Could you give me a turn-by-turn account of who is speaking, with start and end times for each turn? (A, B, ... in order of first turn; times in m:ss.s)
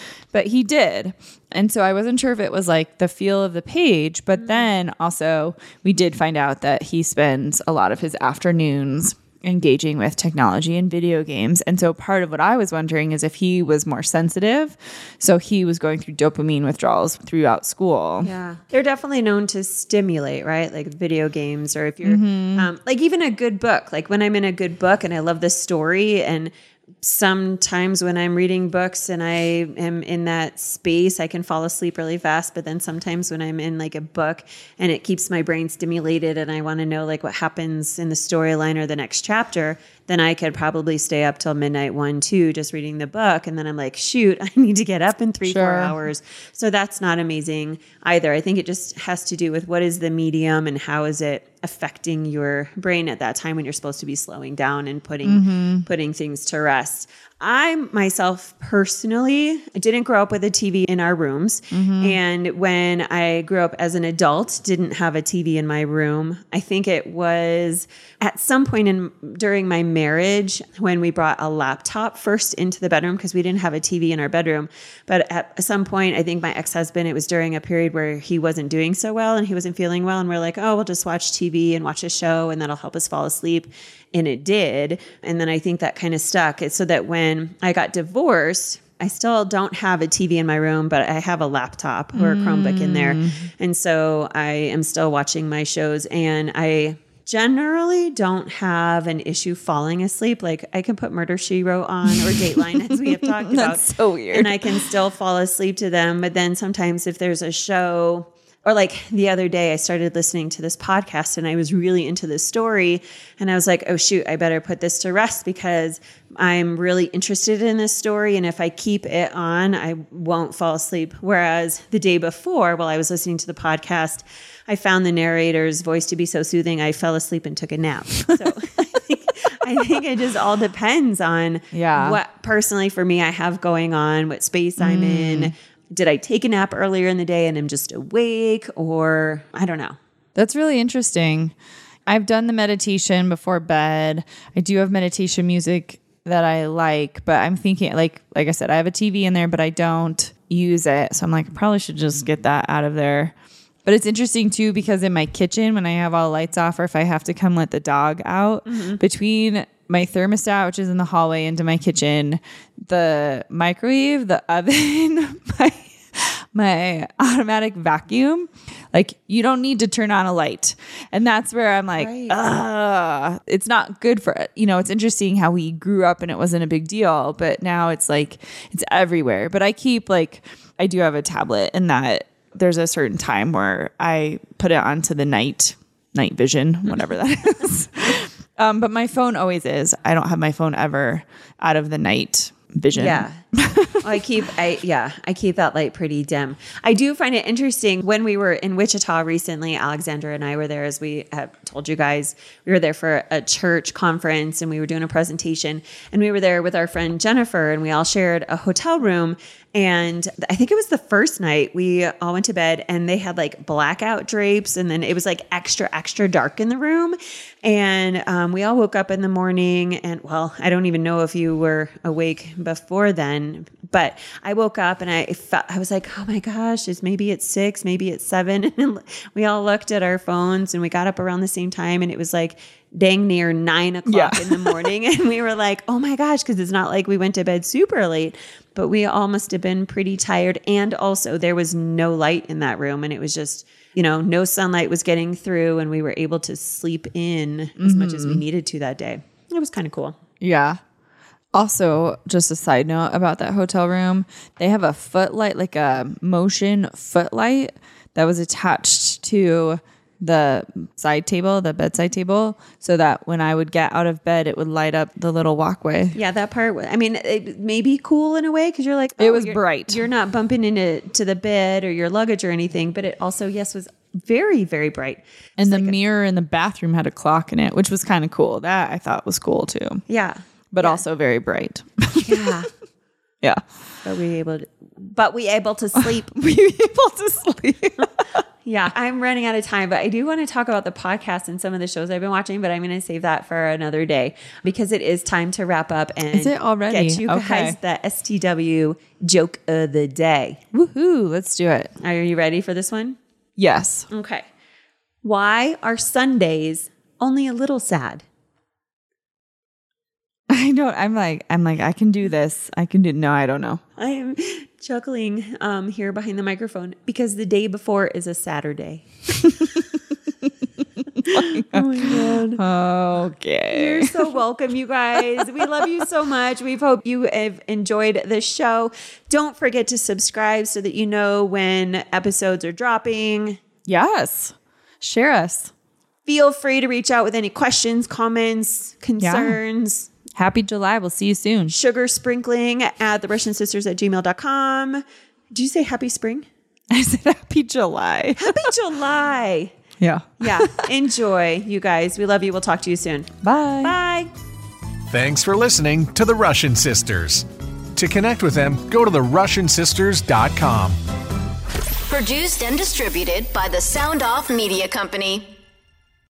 0:00.3-0:18.3 A
0:18.2-2:20.0 B
0:22.0-0:22.7 A
0:45.4-0:46.0 A
0:55.2-0:55.9 A
1:01.7-1:02.2 A
1:32.2-1:33.4 A
1:42.1-1:44.7 A
2:11.7-2:12.2 A
2:14.8-2:15.5 A
2:20.4-2:21.5 A
2:22.1-2:33.3 A
2:33.9-3:14.0 A
2:38.7-2:39.0 B
2:52.0-2:52.4 B
3:13.0-3:13.4 B
3:14.0-4:10.2 B
3:54.1-3:54.8 A
4:07.8-4:08.4 A
4:10.4-4:10.8 A
4:11.5-4:26.2 A
4:26.1-4:36.0 B
4:29.2-4:30.0 A
4:35.6-4:40.0 A
4:40.1-4:41.0 B
4:40.7-4:42.3 A
4:42.2-4:42.7 B
4:44.0-4:46.3 B
4:46.0-4:48.4 A
4:48.6-5:00.6 B
4:56.3-4:57.8 A
5:00.7-5:01.9 A
5:02.0-5:03.2 B
5:03.6-5:04.1 A
5:04.1-5:04.5 B
5:05.2-5:08.2 B
5:10.5-5:13.8 A
5:14.0-5:19.1 B
5:21.0-5:24.3 A
5:21.3-5:22.6 B
5:23.7-5:33.6 B
5:33.9-5:35.7 A
5:36.3-5:40.1 B
5:39.2-5:39.6 A
5:40.4-5:41.7 A
5:41.7-5:46.5 B
5:46.9-5:48.7 A
5:48.4-5:49.8 B
5:50.0-5:50.8 A
5:50.4-5:54.3 B
5:53.4-5:53.9 A
5:55.1-6:01.0 C
6:02.1-6:05.5 D